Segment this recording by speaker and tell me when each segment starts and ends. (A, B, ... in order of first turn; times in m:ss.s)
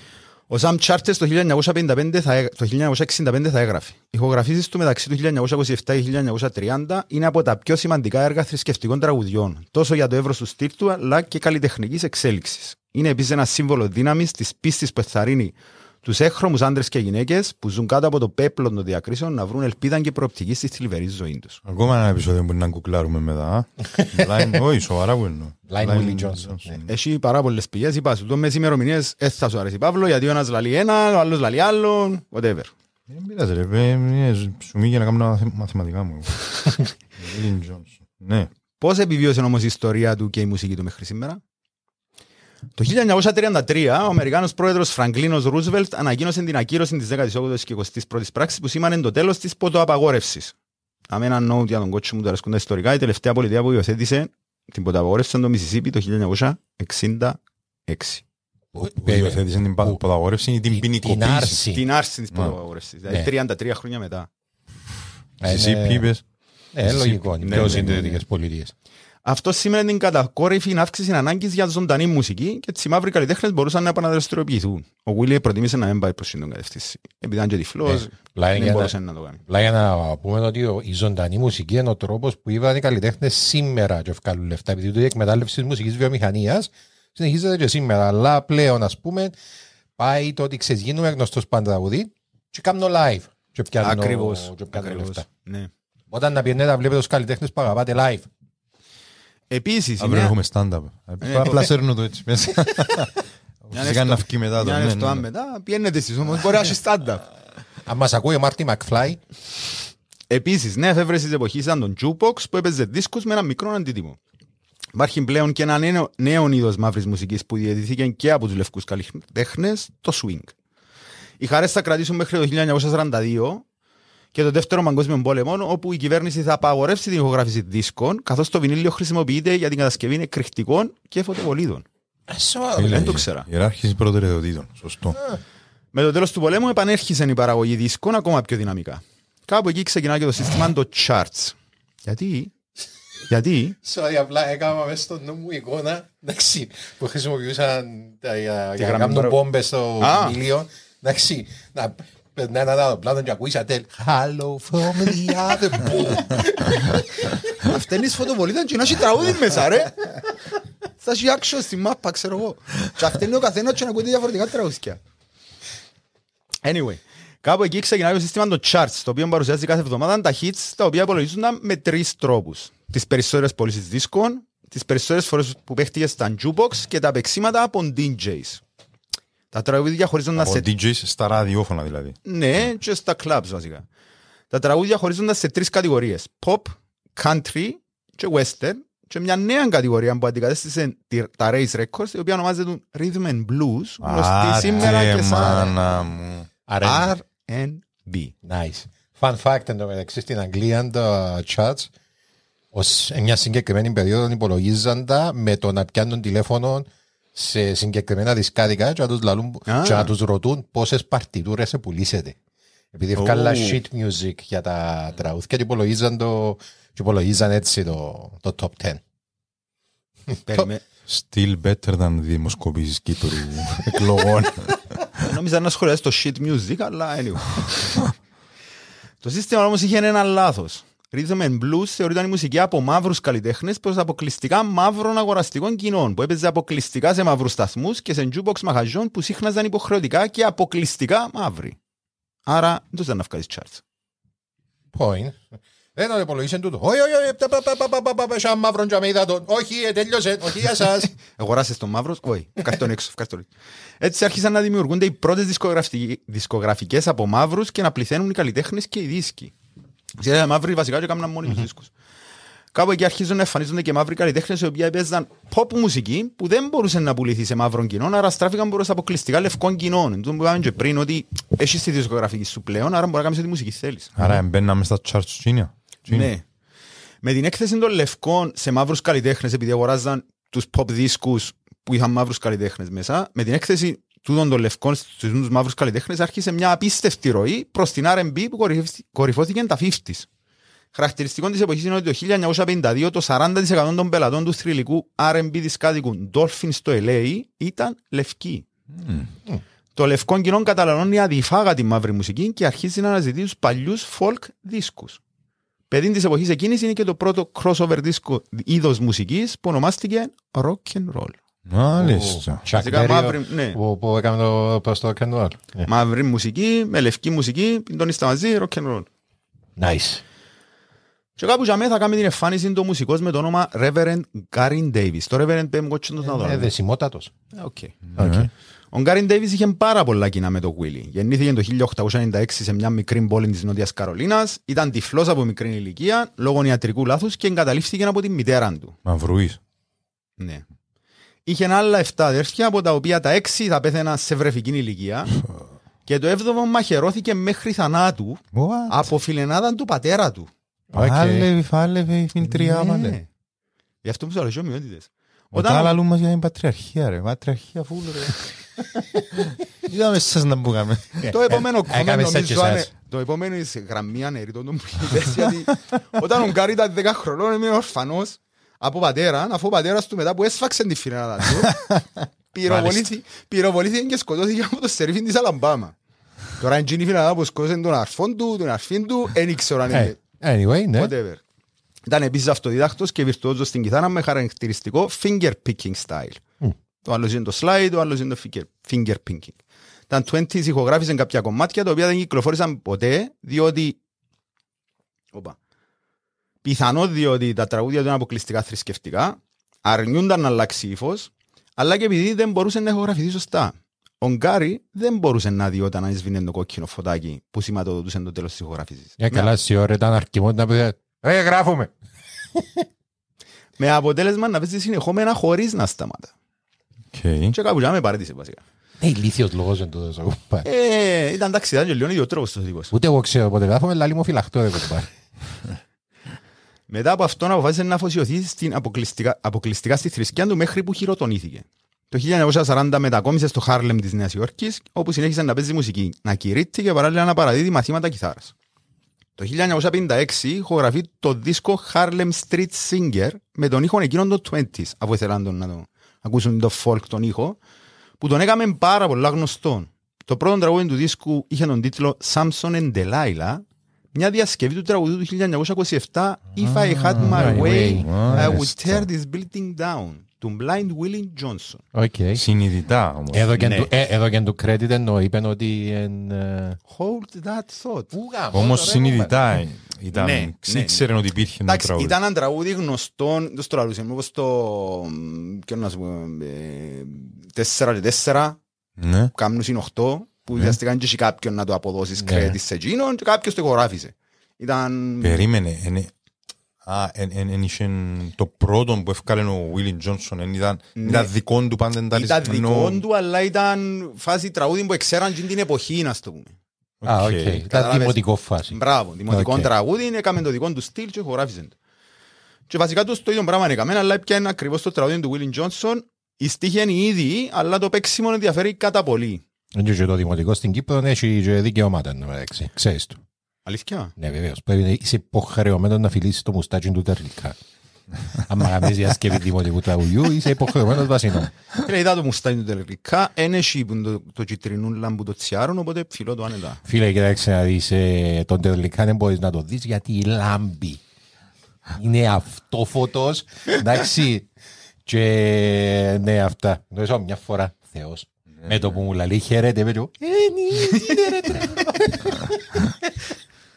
0:00.5-0:21.6 A
0:21.6-0:26.9 B
0:23.9-0:24.2 C
0:25.7-0:26.8 C
0:26.9-0:32.7 A
0:33.1-0:38.5 B
0:38.8-0:41.4 A
0:42.8-0:50.5 A
0:51.1-0:58.2 A
0:58.7-1:00.0 C
0:59.0-1:01.6 B
1:00.7-1:01.8 C
1:01.7-1:04.3 A
1:05.4-1:06.1 C
1:05.4-1:06.2 B
1:06.7-1:08.7 C
1:06.8-1:08.0 B
1:07.4-1:08.2 A
1:09.2-1:19.4 A
1:17.9-1:18.9 C
1:19.4-1:29.4 C
1:30.0-1:35.2 C
1:33.8-1:35.7 A
1:36.1-1:38.3 C
1:39.5-1:40.3 A
1:40.0-1:45.2 B
1:41.2-1:41.7 A
1:43.7-1:47.2 A
1:47.9-1:49.2 C
1:50.3-1:54.2 A
1:54.9-2:00.5 A
2:01.4-2:03.6 A
2:04.3-2:11.8 A
2:12.3-2:13.2 C
2:12.8-2:15.2 B
2:12.8-2:13.5 A
2:15.1-2:15.4 C
2:15.9-2:22.5 A
2:23.3-2:23.8 A
2:23.8-2:37.4 C
2:28.8-2:29.4 A
2:30.0-2:30.4 A
2:37.6-2:40.2 A
2:41.0-2:45.0 A
2:46.6-2:58.6 A
2:59.5-3:00.7 A
3:00.3-3:02.2 B
3:02.2-3:03.8 A
3:04.5-3:15.7 A
3:14.0-3:16.5 B
3:14.6-3:15.0 C
3:16.7-3:17.2 C
3:16.8-3:18.3 A
3:18.4-3:21.9 C
3:22.7-3:32.4 C
3:29.7-3:30.1 A
3:32.9-3:39.0 C
3:33.2-3:33.8 B
3:40.3-3:40.7 C
3:40.5-3:40.8 A
3:41.1-3:45.2 B
3:45.2-3:48.1 A
3:49.2-4:01.8 A
4:02.4-4:03.8 A
4:04.9-4:05.4 C
4:06.0-4:11.2 C
4:11.4-4:13.5 A
4:14.0-4:19.5 A
4:20.2-4:21.9 A
4:22.7-4:34.2 A
4:34.2-4:36.3 B
4:36.1-4:36.4 A
4:37.2-4:50.3 A
4:50.9-4:58.6 A
4:58.9-4:59.3 B
5:00.0-5:05.2 A
5:05.9-5:11.4 A
5:11.6-5:12.6 B
5:12.0-5:15.9 C
5:12.7-5:13.8 A
5:15.8-5:19.1 A
5:19.8-5:20.2 C
5:21.4-5:26.7 A
5:26.2-5:27.3 C
5:27.5-5:28.0 A
5:28.1-5:28.5 B
5:28.2-5:28.5 C
5:28.9-5:39.0 A
5:39.0-5:39.6 B
5:40.4-5:40.6 A
5:41.4-5:45.4 A
5:46.0-5:50.5 A
5:48.5-5:49.1 B
5:50.9-5:51.5 C
5:50.9-5:53.2 B
5:52.5-5:53.3 A
5:54.0-5:56.0 A
5:55.5-5:58.3 B
5:59.3-6:01.3 B
6:01.2-6:02.9 C
6:01.3-6:11.8 A
6:12.5-6:15.9 A
6:12.7-6:13.0 B
6:16.6-6:20.2 A
6:19.9-6:21.1 C
6:21.0-6:21.4 A
6:22.1-6:26.4 A
6:27.0-6:29.6 A
6:30.1-6:34.0 A
6:36.6-6:49.5 A
6:49.2-6:51.9 C
6:52.6-6:52.8 C
6:53.8-6:56.3 A
6:57.1-6:57.6 B
6:57.5-6:58.6 A
6:59.0-7:00.7 C
7:00.6-7:02.9 A
7:02.9-7:05.1 C
7:06.9-7:18.5 A
7:19.4-7:27.6 A
7:28.2-7:41.8 A
7:36.6-7:39.1 B
7:37.2-7:38.7 C
7:41.9-7:42.4 C
7:42.3-7:43.7 B
7:43.3-7:46.8 C
7:43.6-7:43.9 A
7:46.9-7:48.1 A
7:48.1-7:49.4 C
7:48.5-7:52.2 B
7:50.1-7:51.1 A
7:51.6-7:58.6 A
7:59.0-7:59.3 B
7:59.3-8:05.4 A
8:02.2-8:02.6 C
8:05.2-8:06.1 B
8:06.8-8:13.0 B
8:11.0-8:11.3 A
8:12.1-8:16.5 A
8:17.0-8:17.6 B
8:17.0-8:19.7 C
8:17.6-8:21.7 A
8:22.7-8:29.4 A
8:29.7-8:33.2 C
8:33.6-8:34.1 A
8:34.2-8:37.6 C
8:38.5-8:41.5 C
8:41.8-8:46.8 A
8:46.8-8:51.0 C
8:51.9-8:54.5 C
8:55.0-9:02.8 C